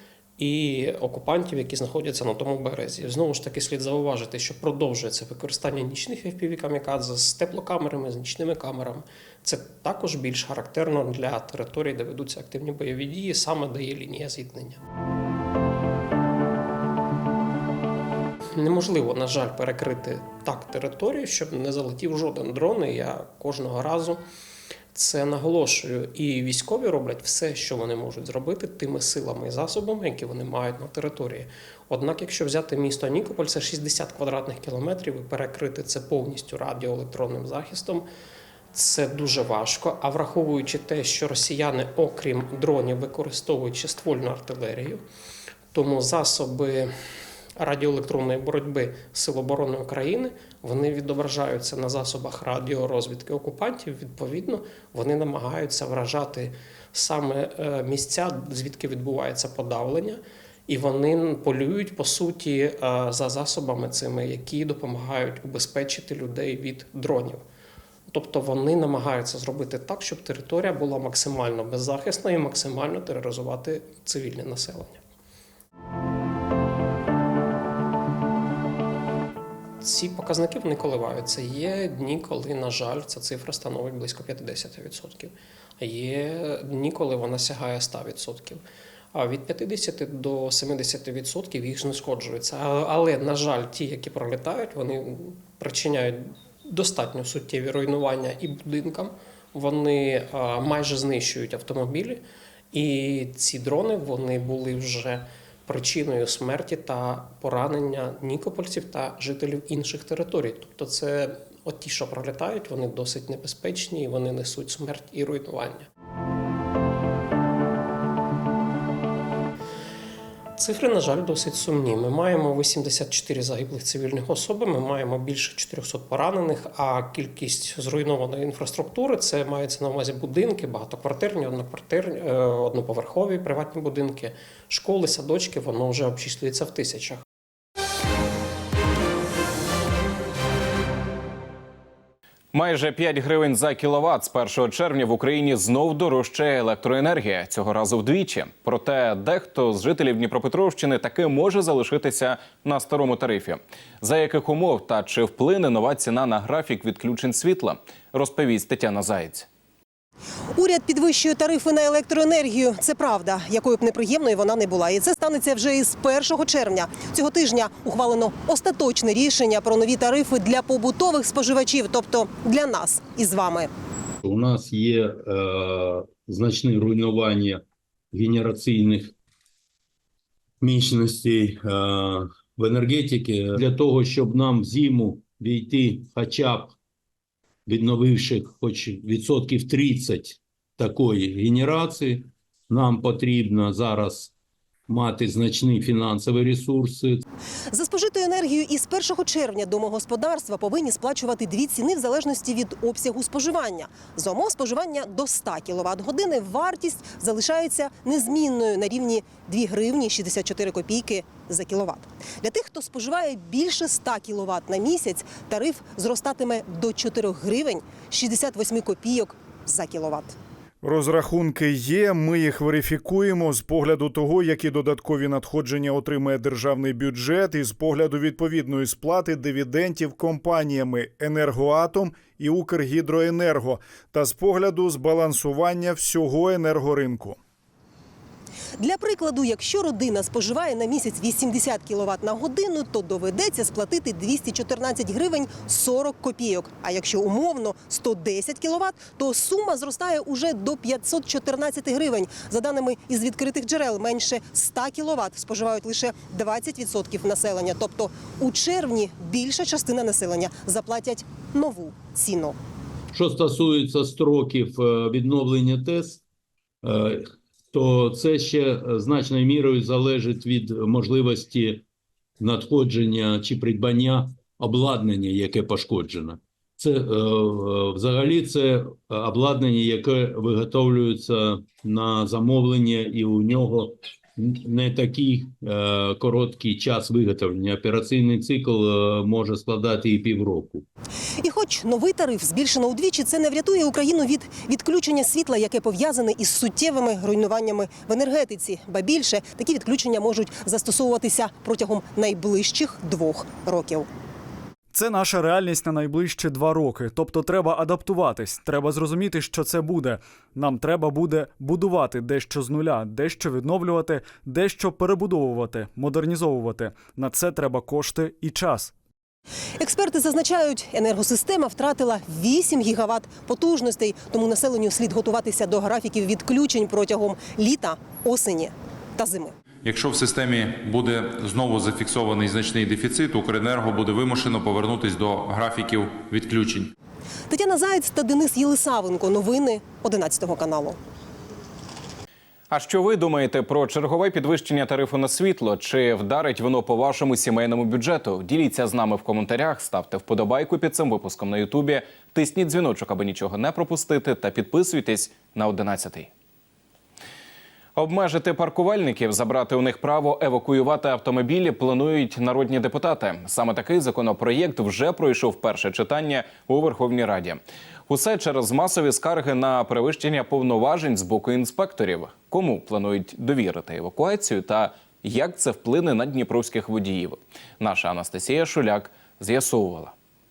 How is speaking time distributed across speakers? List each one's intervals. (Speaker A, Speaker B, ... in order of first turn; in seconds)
Speaker A: 0.4-14.8, 18.5-24.2, 24.9-38.1, 38.7-45.0, 45.7-46.9, 47.6-67.4, 68.1-75.0, 79.8-88.6, 89.1-115.9, 120.6-137.2
Speaker B: 142.5-159.5, 342.7-356.3, 358.0-380.1
Speaker C: 160.5-173.7, 197.7-220.3, 238.8-262.6, 291.4-304.1, 319.8-329.5, 337.5-341.0
Speaker D: 174.2-177.6, 178.1-179.1, 180.6-186.8, 187.7-194.3, 194.9-197.2, 263.1-266.2, 266.8-271.8, 272.4-290.9
Speaker E: 220.8-237.4
Speaker F: 304.9-318.9
Speaker G: 329.9-336.9